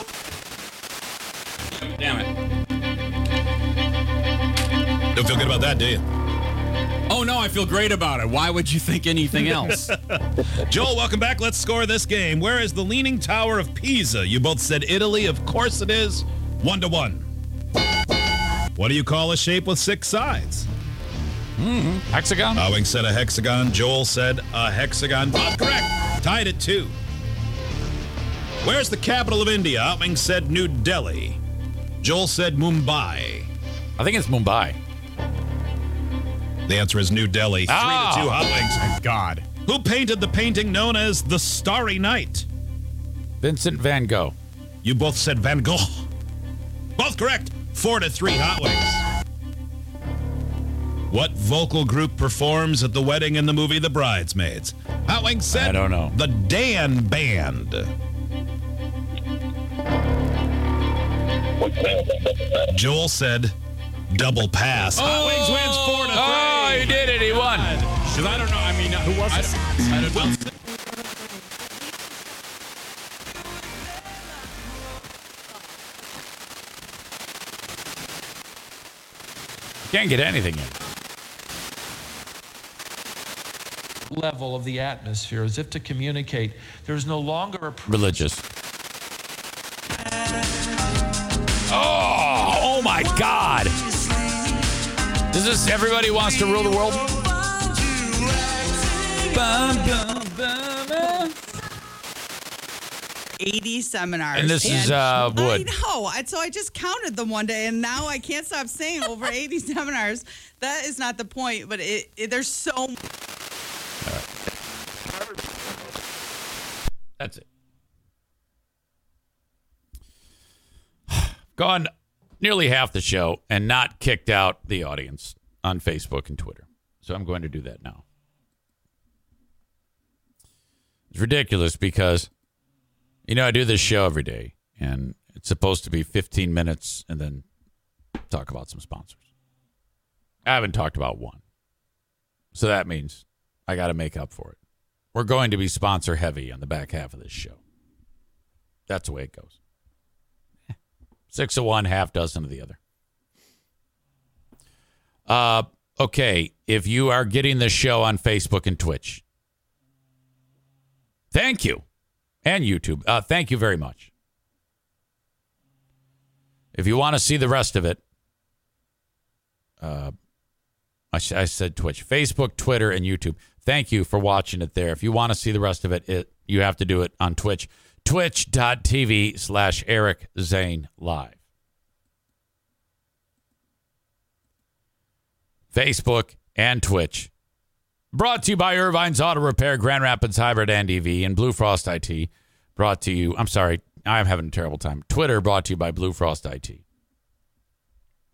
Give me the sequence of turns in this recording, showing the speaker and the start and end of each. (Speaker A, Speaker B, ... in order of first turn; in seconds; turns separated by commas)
Speaker A: 1.9-2.3, Speaker B: 5.1-6.0, Speaker A: 7.1-9.9, Speaker B: 9.5-10.1, Speaker B: 10.7-17.3, Speaker B: 18.8-20.7, Speaker C: 21.6-22.6, Speaker B: 22.5-26.9, Speaker B: 28.6-31.4, Speaker B: 32.0-33.5, Speaker C: 34.0-34.8, Speaker B: 36.6-42.5, Speaker C: 37.7-38.6, Speaker C: 43.4-44.3, Speaker B: 44.8-46.1, Speaker B: 47.0-49.0, Speaker B: 51.1-57.9, Speaker C: 55.5-56.2, Speaker B: 62.6-63.5, Speaker B: 64.1-66.7, Speaker C: 65.0-67.8, Speaker A: 67.9-69.9, Speaker C: 69.3-70.3, Speaker C: 79.9-80.7, Speaker D: 84.1-88.0, Speaker C: 87.8-88.5, Speaker C: 91.7-93.8, Speaker C: 95.3-97.2, Speaker C: 99.2-101.3, Speaker E: 103.4-113.0, Speaker C: 104.3-105.7, Speaker C: 117.2-117.5, Speaker C: 121.1-121.9, Speaker C: 122.4-128.0, Speaker C: 131.1-132.3, Speaker C: 133.3-137.4, Speaker C: 138.3-139.2, Speaker C: 140.4-141.4, Speaker C: 142.5-144.6, Speaker C: 145.1-147.6, Speaker C: 148.9-149.6, Speaker C: 151.3-152.8, Speaker C: 155.3-159.2, Speaker C: 161.3-161.8, Speaker C: 162.4-164.1, Speaker C: 166.7-168.0, Speaker C: 169.8-170.1, Speaker C: 171.1-181.4, Speaker C: 185.7-187.3, Speaker C: 188.1-196.8